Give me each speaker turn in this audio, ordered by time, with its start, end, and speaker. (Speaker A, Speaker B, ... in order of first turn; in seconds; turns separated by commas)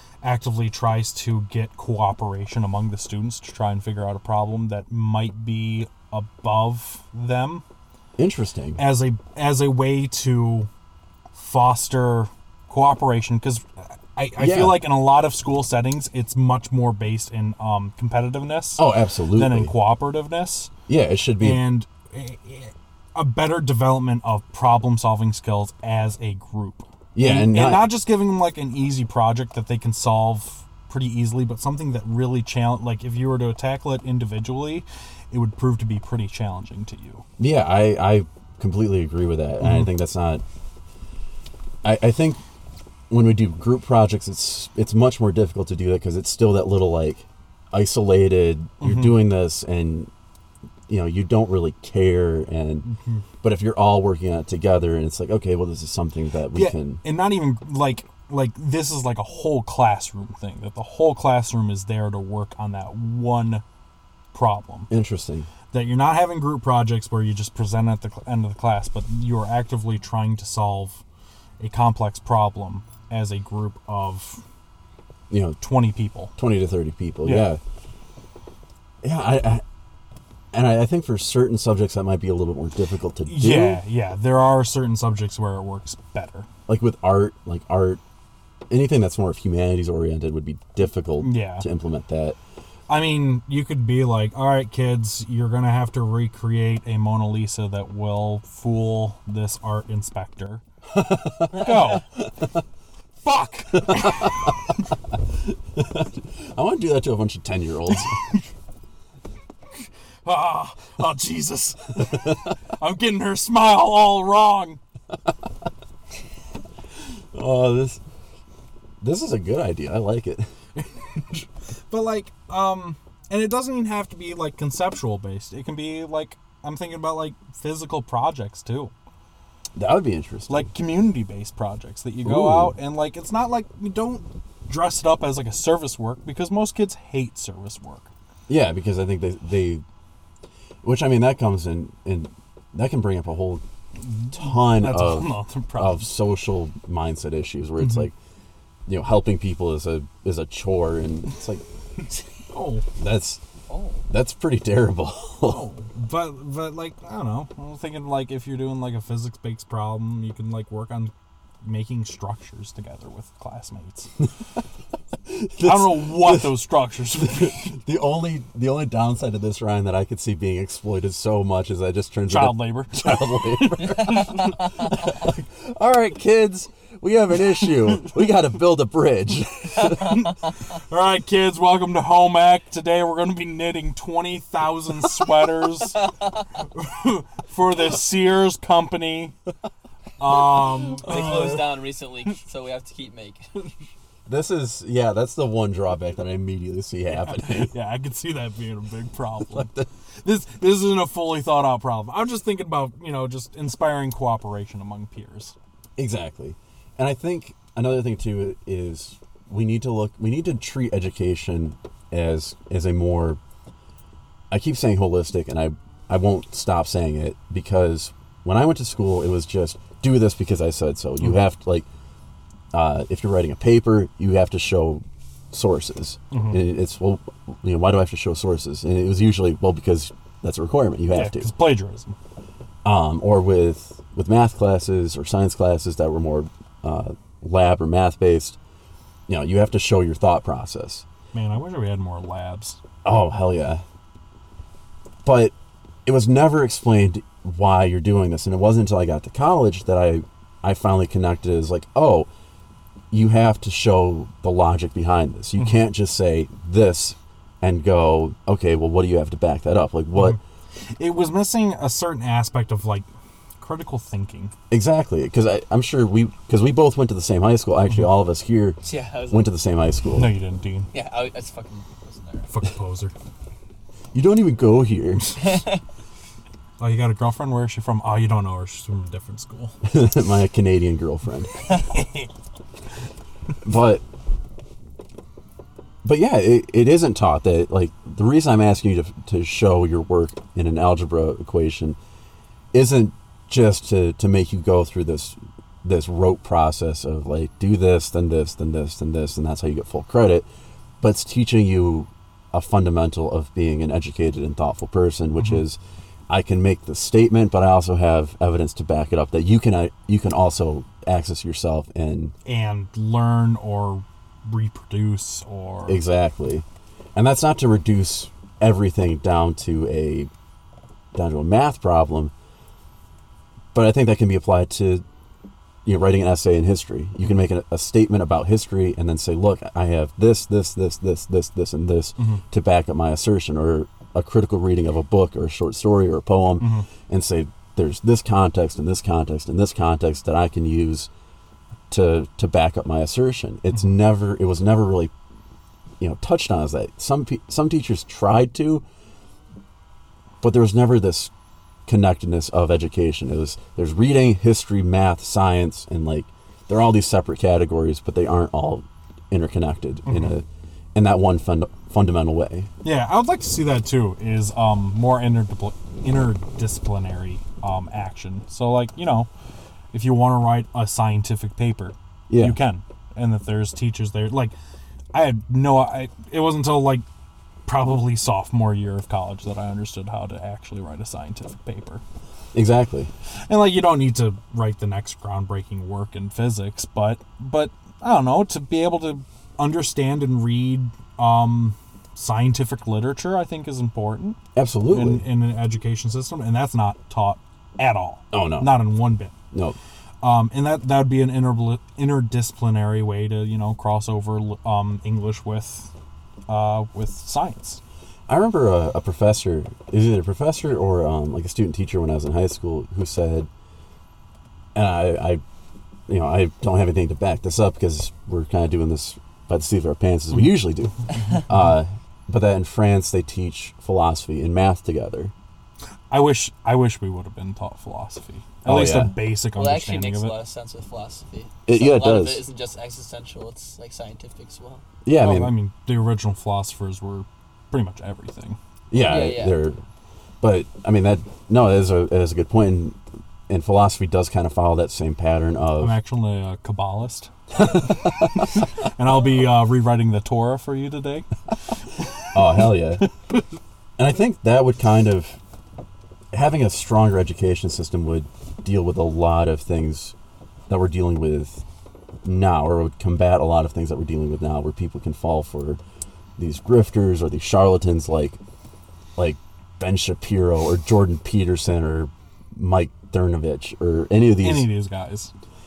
Speaker A: 0.2-7.6, Speaker B: 8.2-8.8, Speaker A: 8.8-10.7, Speaker A: 11.3-20.7, Speaker B: 14.4-14.8, Speaker B: 18.8-19.7, Speaker B: 20.9-21.6, Speaker A: 21.4-37.2, Speaker B: 27.1-27.9, Speaker B: 37.4-40.4, Speaker A: 39.6-39.9, Speaker B: 41.8-42.4, Speaker B: 43.1-50.1, Speaker A: 48.8-49.2, Speaker B: 50.9-52.9, Speaker A: 52.8-53.2, Speaker B: 53.4-57.0, Speaker A: 56.5-63.6, Speaker A: 64.3-64.9, Speaker B: 64.9-65.5, Speaker A: 65.7-71.0, Speaker A: 71.6-74.4, Speaker B: 75.3-75.6, Speaker A: 75.6-76.3, Speaker B: 76.3-77.6, Speaker A: 77.2-77.5, Speaker B: 79.0-79.6, Speaker B: 80.5-83.8, Speaker A: 83.3-86.5, Speaker B: 86.7-88.0, Speaker B: 88.7-92.4, Speaker A: 91.2-91.7, Speaker A: 92.9-100.6, Speaker B: 100.9-102.5, Speaker A: 101.5-102.0, Speaker A: 103.2-104.5, Speaker B: 103.8-104.5, Speaker B: 105.5-108.2, Speaker A: 110.2-114.8, Speaker B: 117.3-118.0, Speaker B: 119.0-120.5, Speaker A: 120.8-128.9, Speaker B: 129.8-130.7, Speaker A: 130.5-138.1, Speaker B: 132.2-132.8, Speaker B: 138.5-139.8, Speaker B: 140.8-143.6, Speaker A: 144.0-146.1, Speaker B: 144.3-148.1, Speaker B: 148.9-151.6, Speaker A: 152.5-152.8, Speaker B: 153.0-153.4, Speaker C: 153.7-154.1, Speaker B: 154.1-155.7, Speaker A: 155.4-164.1, Speaker B: 165.3-180.3, Speaker A: 165.6-167.8, Speaker A: 172.3-175.1, Speaker A: 179.8-189.3, Speaker A: 190.2-191.6, Speaker B: 191.0-191.7, Speaker C: 191.0-193.5, Speaker B: 194.2-197.7, Speaker A: 197.1-199.7, Speaker B: 199.5-199.9, Speaker A: 200.2-205.5, Speaker B: 206.0-213.4, Speaker B: 214.5-221.9, Speaker B: 222.7-231.5, Speaker A: 226.3-226.6, Speaker A: 231.1-232.1, Speaker B: 232.8-238.6, Speaker B: 239.3-241.0, Speaker A: 241.3-242.8, Speaker B: 243.0-243.8, Speaker B: 245.2-245.5, Speaker B: 246.1-252.3, Speaker B: 253.1-260.4, Speaker A: 261.0-263.1, Speaker A: 263.6-264.5, Speaker B: 264.7-270.3, Speaker C: 268.8-269.5, Speaker A: 270.1-270.9, Speaker C: 270.9-272.5, Speaker A: 272.5-273.1, Speaker B: 274.1-275.6, Speaker C: 275.4-275.8, Speaker A: 276.8-279.7, Speaker B: 279.8-281.6, Speaker A: 281.7-282.3, Speaker B: 283.6-284.0, Speaker B: 286.0-292.0, Speaker B: 292.7-300.5, Speaker B: 301.0-312.3, Speaker A: 312.4-316.0, Speaker B: 315.9-320.3, Speaker B: 321.1-322.3, Speaker B: 323.7-325.0, Speaker B: 325.9-341.1, Speaker A: 336.6-336.9, Speaker B: 341.9-345.1, Speaker B: 346.0-348.8, Speaker B: 350.4-351.3, Speaker B: 351.9-362.7, Speaker A: 360.1-360.4, Speaker A: 362.8-369.3, Speaker A: 369.9-374.5, Speaker B: 372.3-372.6, Speaker A: 375.1-377.0, Speaker A: 377.6-382.0, Speaker B: 382.5-383.1, Speaker A: 383.5-394.4, Speaker B: 394.6-395.2, Speaker A: 394.9-399.3, Speaker B: 398.3-398.8, Speaker B: 399.5-399.8, Speaker A: 400.2-405.9, Speaker A: 406.5-407.8, Speaker B: 408.3-413.5, Speaker B: 414.7-415.4, Speaker B: 416.1-425.3, Speaker A: 426.1-430.3, Speaker B: 428.6-429.1, Speaker C: 429.5-434.8, Speaker B: 431.7-432.4, Speaker B: 435.0-435.5, Speaker A: 435.1-438.6, Speaker B: 438.9-439.8, Speaker C: 438.9-439.6, Speaker B: 440.4-446.0, Speaker A: 445.8-447.3, Speaker B: 447.5-448.5, Speaker A: 448.1-451.3, Speaker B: 452.3-453.1, Speaker B: 454.0-455.4, Speaker B: 456.3-460.1, Speaker B: 460.7-461.6, Speaker B: 462.2-465.8, Speaker B: 466.4-468.4, Speaker B: 469.2-474.7, Speaker A: 474.4-475.3